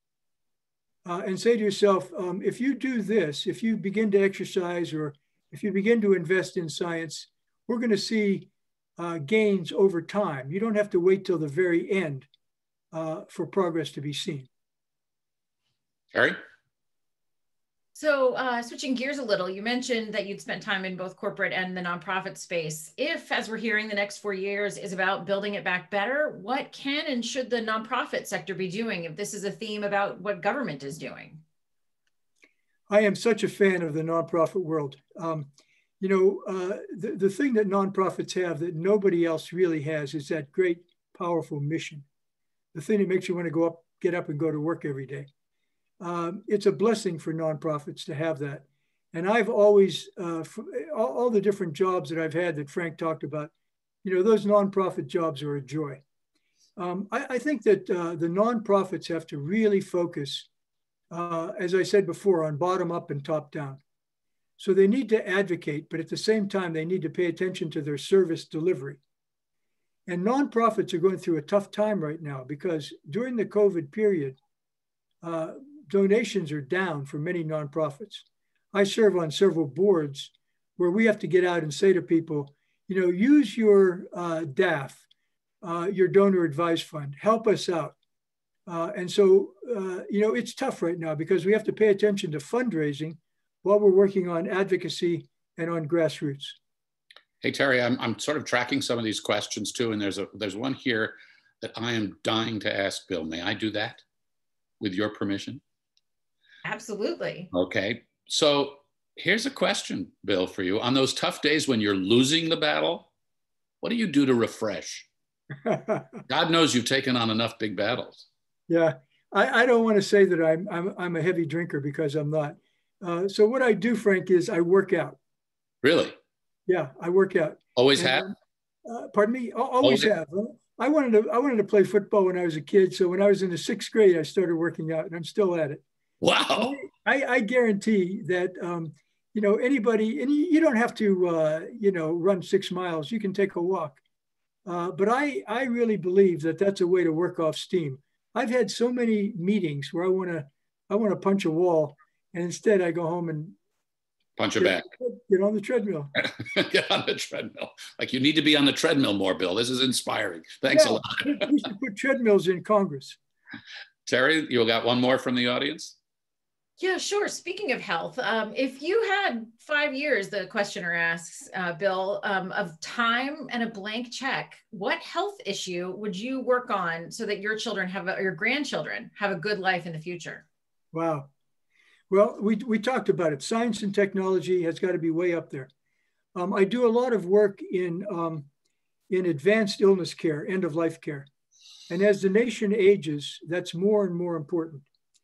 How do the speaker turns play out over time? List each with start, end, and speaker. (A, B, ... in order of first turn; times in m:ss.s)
0:01.0-0:12.3 A
0:12.9-0:14.5 A
0:16.1-0:16.4 B
0:17.9-0:31.4 C
0:32.9-0:35.5 A
0:36.0-0:42.0 A
0:42.7-0:45.3 A
0:46.0-0:53.5 A
0:54.0-0:56.0 A
0:56.8-1:00.5 A
1:01.1-1:03.8 A
1:04.6-1:09.0 A
1:10.1-1:14.4 A
1:15.2-1:25.0 A
1:25.6-1:28.0 A
1:28.7-1:36.6 A
1:37.4-1:44.0 B
1:44.8-1:45.6 B
1:46.6-1:47.5 C
1:47.5-1:53.1 B
1:53.8-1:55.1 B
1:55.7-1:56.1 A
1:56.3-1:58.2 B
1:58.7-2:05.2 A
2:05.8-2:06.1 B
2:06.7-2:08.3 A
2:07.8-2:08.3 B
2:08.8-2:15.8 A
2:09.8-2:10.1 B
2:16.2-2:16.8 B
2:16.6-2:24.0 A
2:24.6-2:33.6 A
2:34.4-2:34.9 B
2:34.6-2:36.1 A
2:36.2-2:41.5 B
2:40.7-2:43.2 A
2:44.0-2:46.0 B
2:46.8-3:00.4 C
3:00.9-3:01.3 A
3:02.1-3:05.7 A
3:06.3-3:08.5 A
3:09.1-3:11.3 A
3:11.9-3:14.8 A